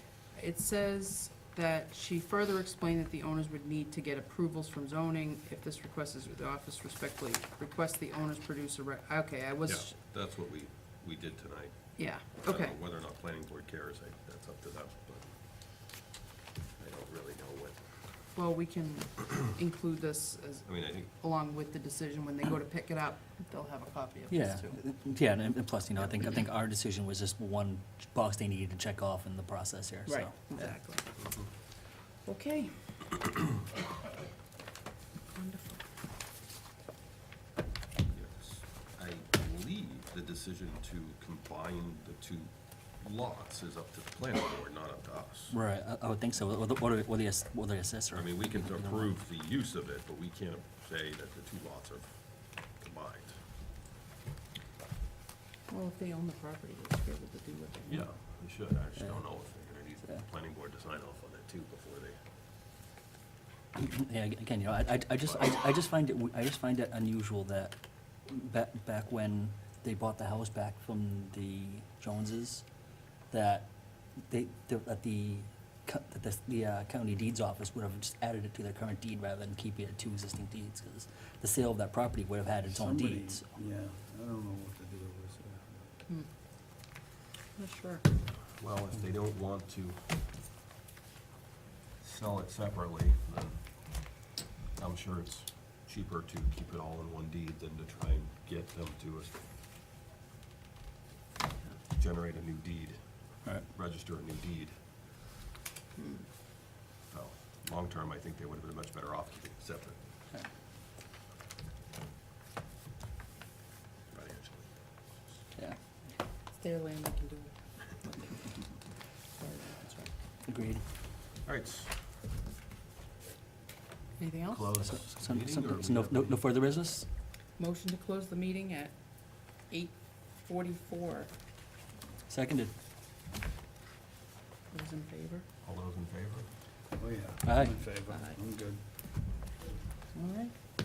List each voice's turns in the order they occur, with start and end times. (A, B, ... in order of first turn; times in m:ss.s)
0:00.3-0:10.0 A
0:09.6-0:15.9 B
0:12.0-0:12.8 A
0:16.8-0:17.9 B
0:18.3-0:24.8 A
0:20.6-0:21.1 B
0:24.3-0:30.7 C
0:30.1-0:31.1 A
0:31.2-0:31.5 B
0:32.2-0:33.2 A
0:35.3-0:35.8 A
0:38.1-0:45.6 B
0:45.5-0:49.1 C
0:48.1-0:53.4 B
0:55.7-0:58.0 A
0:57.9-1:02.2 B
1:03.8-1:12.6 C
1:13.3-1:23.5 C
1:22.6-1:25.9 D
1:27.6-1:28.0 A
1:28.5-1:30.2 B
1:32.0-1:34.2 B
1:34.8-1:39.4 B
1:41.9-1:44.8 B
1:46.0-1:46.3 A
1:47.1-1:50.0 B
1:54.1-1:55.1 B
1:56.5-1:58.7 A
1:59.3-2:00.1 A
2:00.4-2:00.8 C
2:01.4-2:02.0 B
2:04.2-2:04.8 A
2:04.5-2:06.4 B
2:04.8-2:07.1 C
2:07.6-2:11.3 A
2:12.3-2:12.7 C
2:14.7-2:15.4 A
2:15.6-2:16.5 B
2:16.9-2:18.8 D
2:17.4-2:17.8 C
2:18.1-2:18.4 A
2:20.1-2:20.5 A